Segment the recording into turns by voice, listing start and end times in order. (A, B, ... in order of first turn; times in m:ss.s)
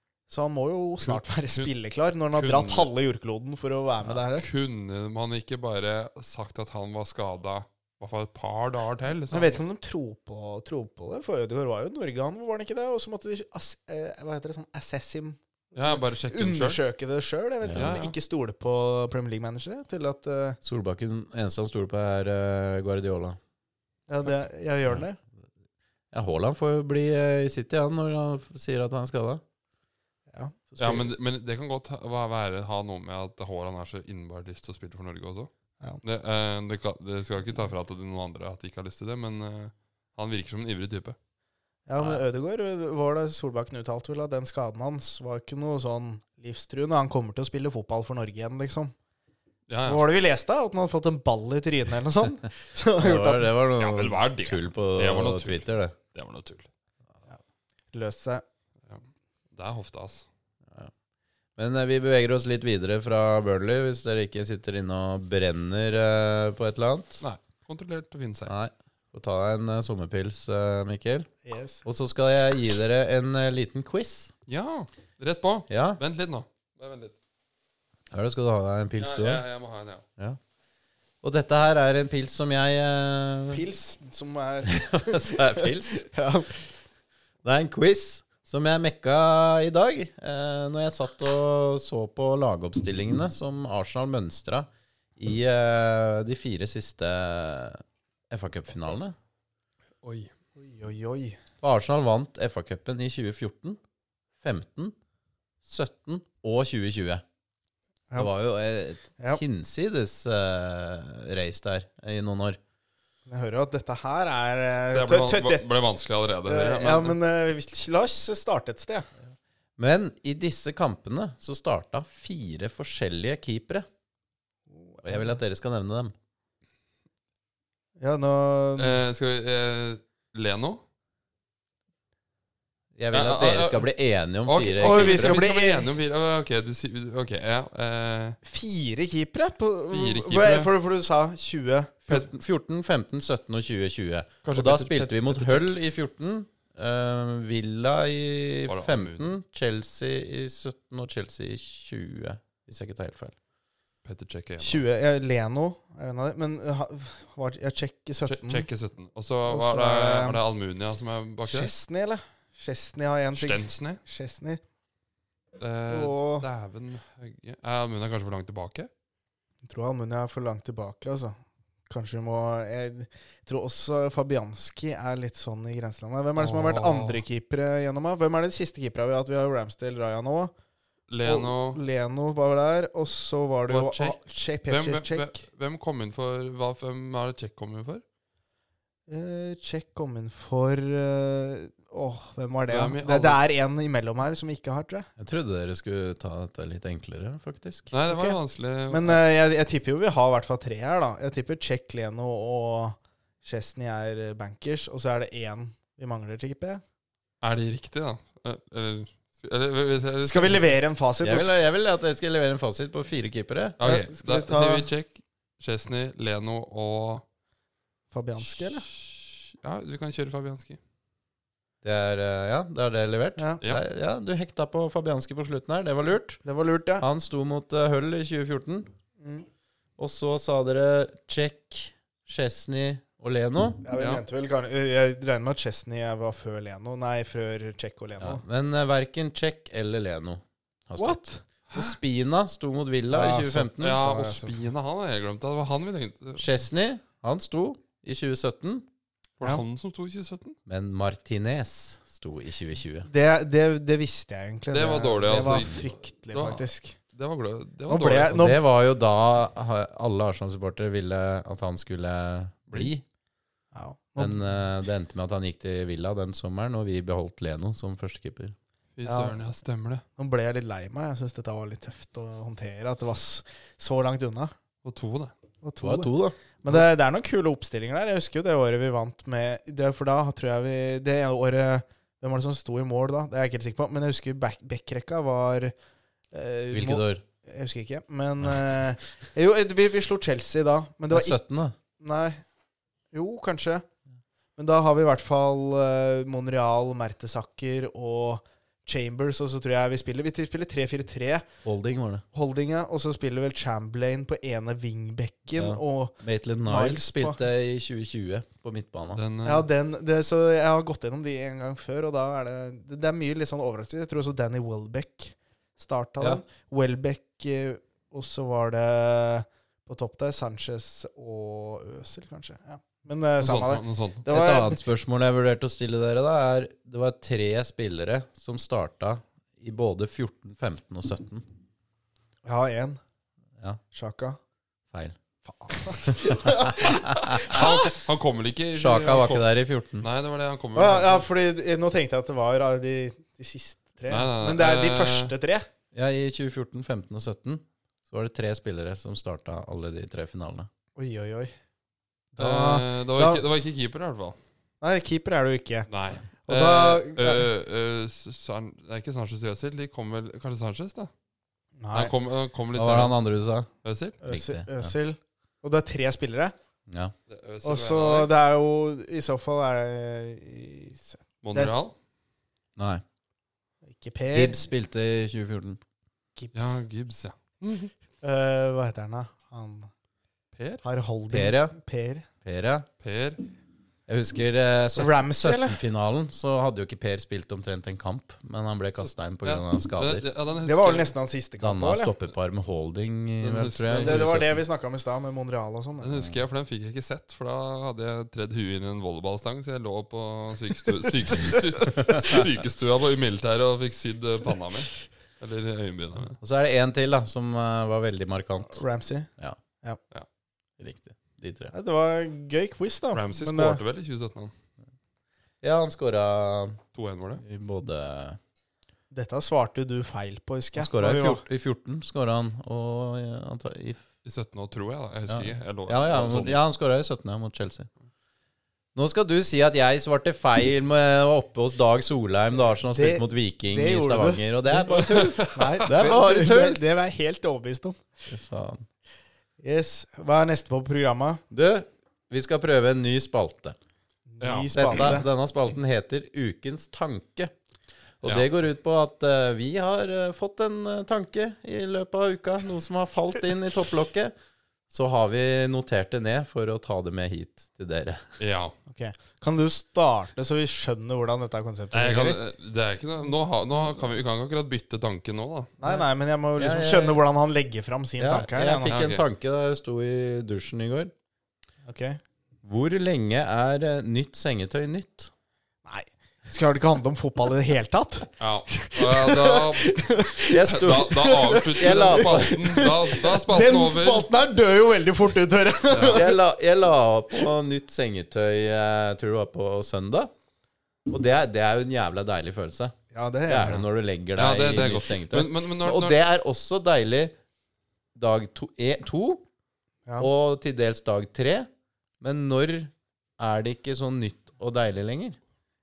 0:00.3-0:04.5 A
0:01.0-0:01.7 B
0:02.3-0:02.9 B
0:04.2-0:09.6 B
0:09.3-0:20.6 A
0:15.7-0:16.8 B
0:17.6-0:17.9 C
0:17.8-0:18.1 B
0:20.6-0:23.4 C
0:24.1-0:25.2 A
0:26.1-0:29.4 C
0:30.3-0:31.0 A
0:30.8-0:35.5 B
0:36.0-0:41.2 B
0:41.9-0:48.9 A
0:49.7-0:50.0 B
0:49.9-0:53.5 A
0:53.0-0:56.0 C
0:53.8-0:56.7 B
0:57.9-0:58.4 A
0:58.9-1:00.3 B
1:01.6-1:07.2 C
1:07.2-1:08.5 B
1:08.5-1:11.3 C
1:11.5-1:11.8 A
1:11.8-1:14.3 C
1:14.5-1:17.2 B
1:15.7-1:16.0 C
1:18.1-1:19.4 C
1:19.0-1:20.0 B
1:21.2-1:23.6 C
1:23.5-1:26.7 A
1:24.7-1:26.1 C
1:27.4-1:39.2 C
1:40.0-1:40.3 B
1:40.6-1:41.4 A
1:41.6-1:43.8 C
1:44.4-1:45.0 C
1:45.6-1:47.2 C
1:48.2-1:52.6 C
1:53.3-1:55.7 A
1:54.9-1:57.2 B
1:56.5-1:59.1 A
1:59.8-2:03.9 C
2:04.7-2:05.3 A
2:05.0-2:06.1 C
2:08.0-2:09.0 A
2:08.8-2:10.8 B
2:13.0-2:15.4 C
2:13.1-2:13.9 B
2:14.4-2:18.4 B
2:14.8-2:15.9 A
2:18.4-2:22.0 A
2:19.9-2:20.7 B
2:22.1-2:33.4 C
2:24.4-2:25.7 B
2:28.7-2:29.2 B
2:34.0-2:34.8 B
2:34.6-2:38.7 A
2:38.3-2:41.7 B
2:39.5-2:40.4 A
2:41.5-2:44.6 A
2:43.4-2:44.0 B
2:45.6-2:48.9 B
2:45.9-2:46.5 A
2:49.6-2:51.4 A
2:51.9-3:00.5 A
2:56.4-2:57.2 B
3:01.1-3:01.8 B
3:01.2-3:05.4 A
3:03.7-3:08.0 B
3:09.1-3:15.1 A
3:12.7-3:13.4 B
3:15.2-3:17.9 C
3:17.9-3:19.2 B
3:18.1-3:18.4 A
3:18.9-3:26.8 A
3:27.4-3:30.7 B
3:30.2-3:31.5 A
3:31.2-3:33.8 C
3:33.8-3:37.2 B
3:33.8-3:34.9 A
3:38.1-3:38.9 A
3:38.4-3:40.8 B
3:41.8-3:46.4 C
3:43.4-3:43.6 A
3:46.4-3:47.1 A
3:47.0-3:48.9 C
3:49.2-3:49.5 A
3:50.0-3:53.8 C
3:53.8-3:58.4 A
3:54.0-3:54.2 B
3:58.2-4:04.0 C
4:01.0-4:01.4 A
4:03.1-4:04.6 A
4:03.8-4:06.5 B
4:06.4-4:08.9 C
4:09.4-4:10.6 B
4:10.7-4:13.1 C
4:13.1-4:17.0 A
4:14.7-4:18.4 B
4:17.9-4:18.6 A
4:18.3-4:23.0 C
4:23.7-4:24.4 A
4:24.2-4:28.6 C
4:29.0-4:30.0 B
4:29.0-4:29.4 A
4:30.2-4:34.5 A
4:34.8-4:35.3 B
4:35.6-4:45.7 A
4:35.8-4:36.4 C
4:46.3-4:51.4 A
4:46.7-4:47.2 C
4:51.1-4:51.8 C
4:52.0-4:52.4 A
4:53.1-4:53.8 A
4:54.6-5:01.4 A
5:01.6-5:02.2 C
5:02.3-5:07.4 A
5:05.6-5:09.2 C
5:09.1-5:09.7 B
5:09.4-5:24.8 A
5:23.4-5:24.2 B
5:24.3-5:31.4 C
5:32.4-5:33.0 A
5:33.9-5:34.4 A
5:34.9-5:35.2 C
5:35.5-5:37.8 A
5:36.1-5:37.7 C
5:36.8-5:39.5 B
5:38.8-5:40.1 C
5:40.0-5:41.2 B
5:40.8-5:45.7 A
5:44.1-5:45.3 B
5:45.9-5:50.7 C
5:51.0-5:51.5 A
5:52.3-5:53.4 A
5:52.4-5:54.4 B
5:54.8-5:55.9 A
5:55.9-6:01.1 B
5:56.4-5:57.5 A
6:01.8-6:02.1 A
6:01.9-6:03.2 B
6:02.8-6:03.7 C
6:03.8-6:04.2 B
6:04.2-6:06.5 A
6:04.2-6:04.9 C
6:06.9-6:07.1 C
6:07.3-6:08.3 B
6:07.6-6:11.7 A
6:11.4-6:11.9 B
6:12.8-6:13.0 C
6:13.9-6:14.7 A
6:14.3-6:15.8 C
6:16.4-6:16.8 A
6:16.5-6:17.9 B
6:18.2-6:19.9 A
6:20.6-6:20.8 B
6:20.8-6:22.3 A
6:21.3-6:21.8 C
6:22.4-6:22.9 C
6:23.0-6:23.4 B
6:24.1-6:30.2 C
6:25.0-6:25.8 A
6:29.4-6:31.1 B
6:30.6-6:32.1 A
6:31.6-6:34.6 C
6:33.4-6:34.4 B
6:34.0-6:36.1 A
6:36.0-6:46.4 B
6:42.0-6:42.2 C
6:46.4-6:48.8 C
6:48.8-6:49.3 A
6:50.8-6:51.7 C
6:51.7-6:53.8 A
6:53.1-6:54.5 B
6:55.6-6:56.8 C
6:56.9-6:57.4 B
6:57.4-6:58.4 C
6:59.1-7:01.4 A
7:00.8-7:04.0 C
7:04.2-7:06.6 B
7:05.3-7:07.9 C
7:09.0-7:16.8 C
7:12.8-7:18.0 A
7:15.1-7:15.9 B
7:18.3-7:18.9 C
7:19.6-7:21.4 A
7:21.5-7:23.8 C
7:24.3-7:25.3 A
7:24.4-7:25.2 B
7:24.7-7:27.5 C
7:28.2-7:34.3 C
7:28.2-7:28.5 B
7:34.9-7:38.2 C
7:38.4-7:38.7 B
7:38.9-7:42.4 A
7:41.9-7:45.7 B
7:45.8-7:49.0 A
7:46.6-7:47.2 C
7:48.2-7:51.1 C
7:48.9-7:49.2 B
7:51.9-7:52.2 A
7:52.6-7:55.3 C
7:55.8-8:06.4 A
7:58.4-8:00.0 B
8:00.5-8:02.6 C
8:00.6-8:04.3 B
8:05.9-8:06.2 B
8:06.1-8:10.3 C
8:11.1-8:13.0 C
8:13.1-8:13.8 A
8:13.5-8:17.4 C
8:14.4-8:16.2 B
8:18.2-8:19.4 C
8:20.2-8:21.7 C
8:22.2-8:25.4 C